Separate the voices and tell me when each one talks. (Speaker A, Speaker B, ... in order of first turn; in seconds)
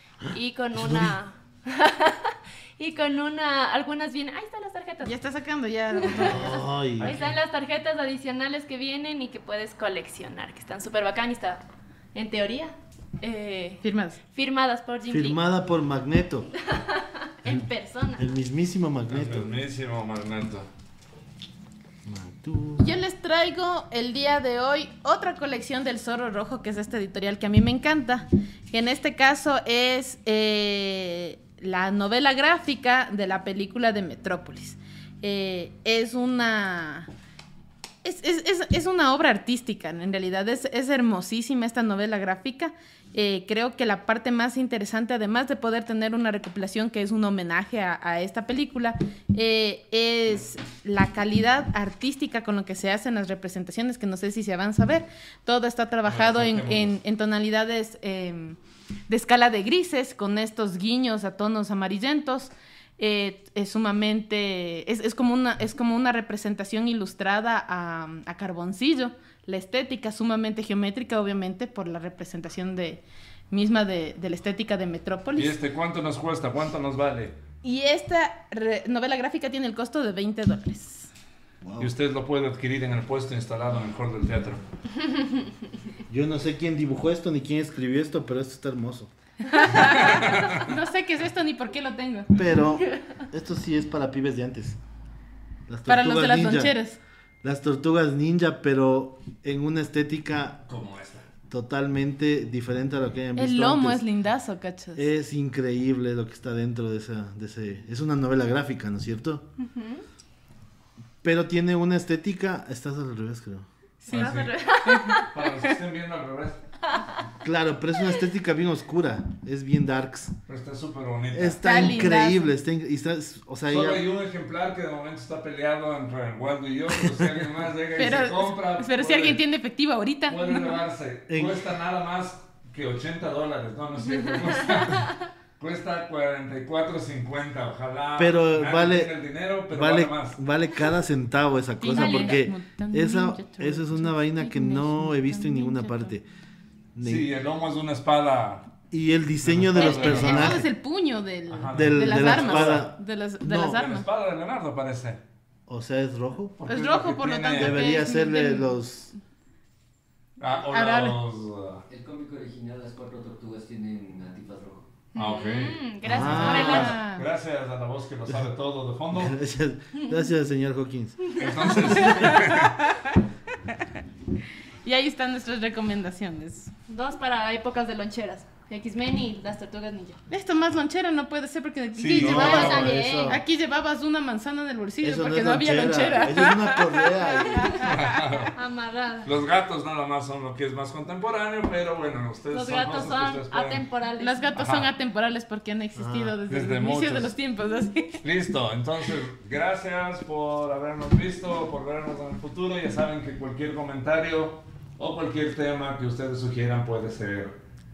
Speaker A: 0.3-5.1, 5.9-11.6, 12.1-15.4, 16.6-18.4, 109.6-110.0, 114.1-115.3, 134.3-135.1, 141.8-142.4, 165.1-167.0, 176.9-180.2, 182.2-183.4, 188.5-189.3, 192.5-194.5
Speaker B: 0.7-1.1, 6.1-7.3, 15.1-16.5, 18.2-19.5, 22.0-22.9, 81.6-81.9, 86.1-89.1, 92.3-94.8, 95.7-96.8, 97.4-100.6, 101.5-104.0, 105.0-109.4, 111.2-113.7, 117.4-120.3, 121.3-124.0, 127.0-127.3, 131.3-131.6, 138.2-139.1, 139.7-146.2, 146.9-147.2, 148.9-150.7, 151.7-153.8, 155.7-156.6, 157.5-159.1, 166.0-167.0, 169.1-172.5, 182.1-183.4, 185.0-187.8, 195.9-196.3
Speaker C: 5.0-6.7, 13.8-14.2, 22.8-37.1, 38.0-75.6, 77.6-81.1, 89.5-92.3, 95.9-97.0, 103.3-105.0, 114.0-115.2, 121.6-122.5, 127.9-130.8, 141.8-146.1, 149.7-154.1, 156.7-158.8, 160.7-161.2, 166.2-167.3, 171.9-173.2, 174.8-176.7, 180.3-188.0, 194.2-198.2
Speaker D: 19.1-20.7, 56.0-57.0, 75.3-77.4, 81.8-84.6, 89.7-90.7, 100.7-101.3, 114.1-114.5, 115.2-116.6, 120.5-122.2, 123.7-129.4, 130.3-140.4, 147.0-148.7, 149.4-150.7, 151.5-152.9, 153.7-155.2, 156.6-157.8, 160.4-161.8, 165.1-169.4, 171.3-172.7, 182.0-183.0, 187.8-188.5, 189.2-193.8, 194.5-194.9, 196.5-197.3, 198.2-207.6
Speaker E: 161.9-164.9